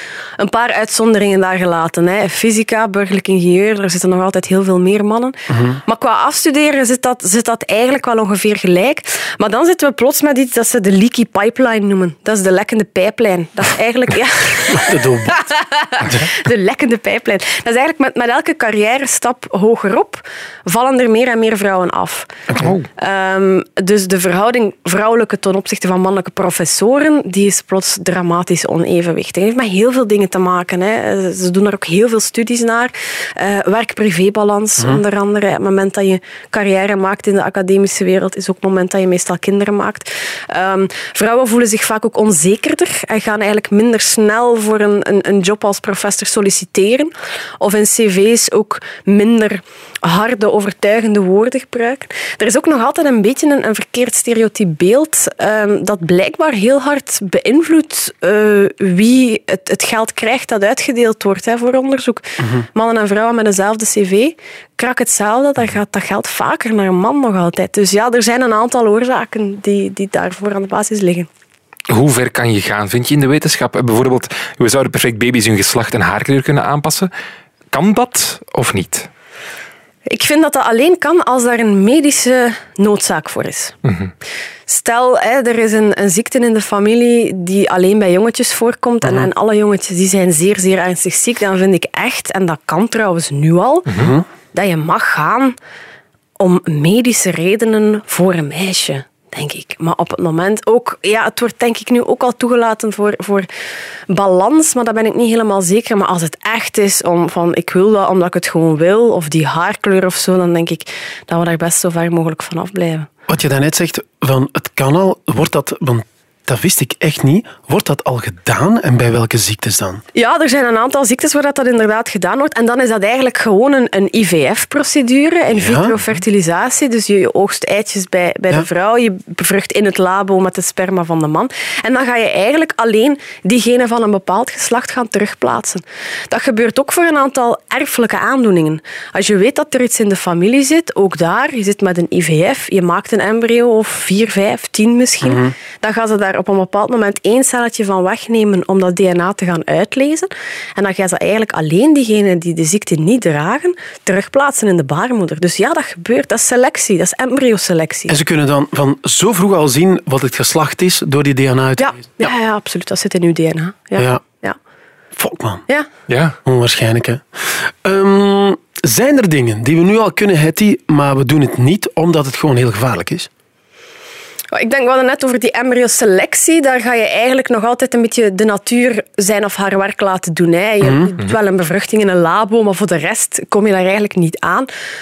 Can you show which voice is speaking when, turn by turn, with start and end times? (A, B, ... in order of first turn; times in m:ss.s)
0:00.4-0:22.3 A
0:05.5-0:05.8 B
0:14.7-0:15.4 B
0:22.5-0:22.7 B
0:23.0-1:11.3 A
1:11.9-1:17.1 C
1:17.7-1:19.1 C
1:20.1-1:23.8 A
1:23.8-1:24.1 C
1:24.7-1:33.9 A
1:33.9-1:34.2 B
1:34.5-1:35.6 A
1:36.4-1:43.5 A
1:44.1-1:53.1 A
1:53.3-2:00.0 B
2:00.1-2:38.2 A
2:05.5-2:05.9 B
2:25.2-2:25.5 B
2:38.1-2:42.3 B
2:41.8-2:44.6 A
2:44.0-2:44.2 B
2:45.2-2:45.6 B
2:46.1-2:46.4 C
2:46.4-2:53.3 B
2:54.5-3:04.7 A
3:00.8-3:01.1 B